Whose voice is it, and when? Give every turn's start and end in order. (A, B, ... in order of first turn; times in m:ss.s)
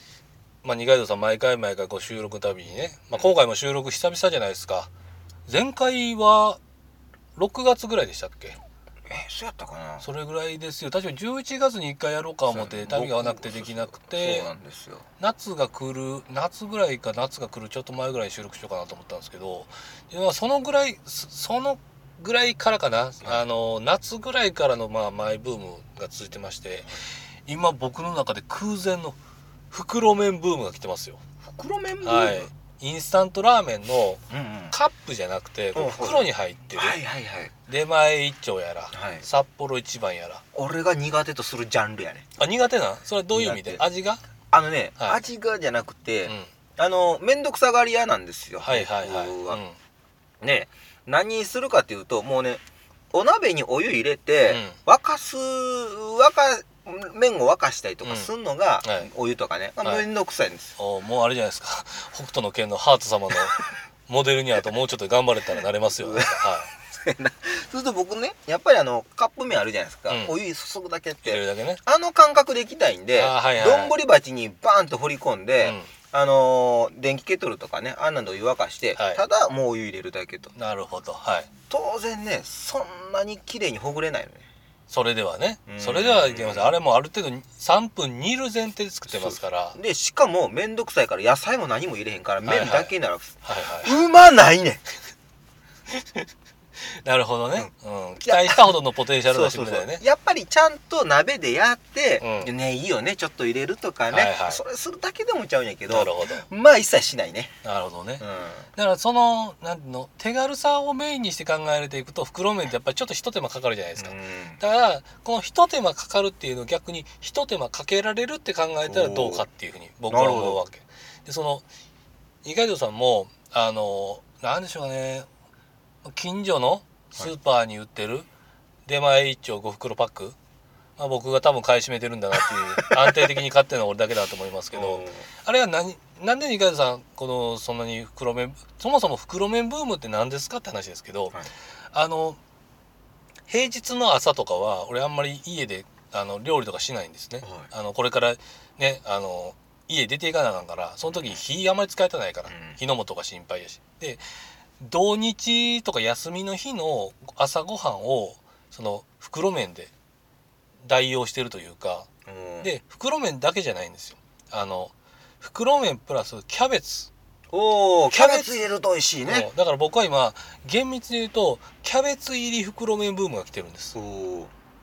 0:00.6-0:04.9 A
0:05.5-0:06.6 A
0:07.4-0:08.6 A
0:09.1-0:10.1 B
0:10.0-0:14.5 A
0:12.5-0:15.1 B
0:15.2-0:26.9 A
0:27.5-0:29.2 A
0:29.7-0:31.2 A
0:31.4-0:32.5 B
0:32.0-0:37.0 A
0:34.3-0:34.8 B
0:35.8-0:37.5 B
0:37.7-0:40.4 A
0:38.9-0:39.3 B
0:40.5-0:42.3 B
0:42.4-0:44.2 A
0:43.3-0:43.8 B
0:44.5-0:49.6 B
0:48.6-0:49.8 A
0:50.4-1:00.8 B
0:54.5-0:54.8 A
0:58.0-0:58.3 A
0:58.8-0:59.1 A
1:00.8-1:03.6 A
1:04.1-1:06.7 A
1:06.0-1:20.5 B
1:10.1-1:10.4 A
1:11.2-1:11.8 A
1:13.2-1:14.0 A
1:15.6-1:15.9 A
1:19.0-1:19.2 A
1:20.6-1:21.5 A
1:21.7-1:24.5 B
1:24.9-1:29.8 A
1:25.7-1:26.8 B
1:29.1-1:34.8 B
1:32.5-1:34.0 A
1:35.9-1:36.2 A
1:36.9-1:40.0 A
1:38.2-1:47.6 B
1:42.2-1:42.5 A
1:44.1-1:44.6 A
1:45.9-1:46.5 A
1:47.6-1:48.2 A
1:48.2-1:48.7 B
1:48.8-2:01.6 A
1:54.0-1:54.6 B
1:58.8-1:59.5 B
2:00.1-2:00.6 B
2:02.4-2:05.3 A
2:06.0-2:08.3 A
2:08.9-2:10.4 A
2:11.0-2:21.4 A
2:12.7-2:13.3 B
2:14.7-2:15.3 B
2:21.9-2:22.4 A
2:23.5-2:34.2 A
2:27.4-2:27.7 B
2:31.1-2:31.4 B
2:32.5-2:32.8 B
2:34.8-2:39.9 A
2:40.8-2:42.1 A
2:42.3-2:42.7 B
2:42.6-2:47.1 A
2:47.5-2:49.5 B
2:48.1-2:48.6 A
2:49.3-2:54.0 A
2:53.9-2:54.5 B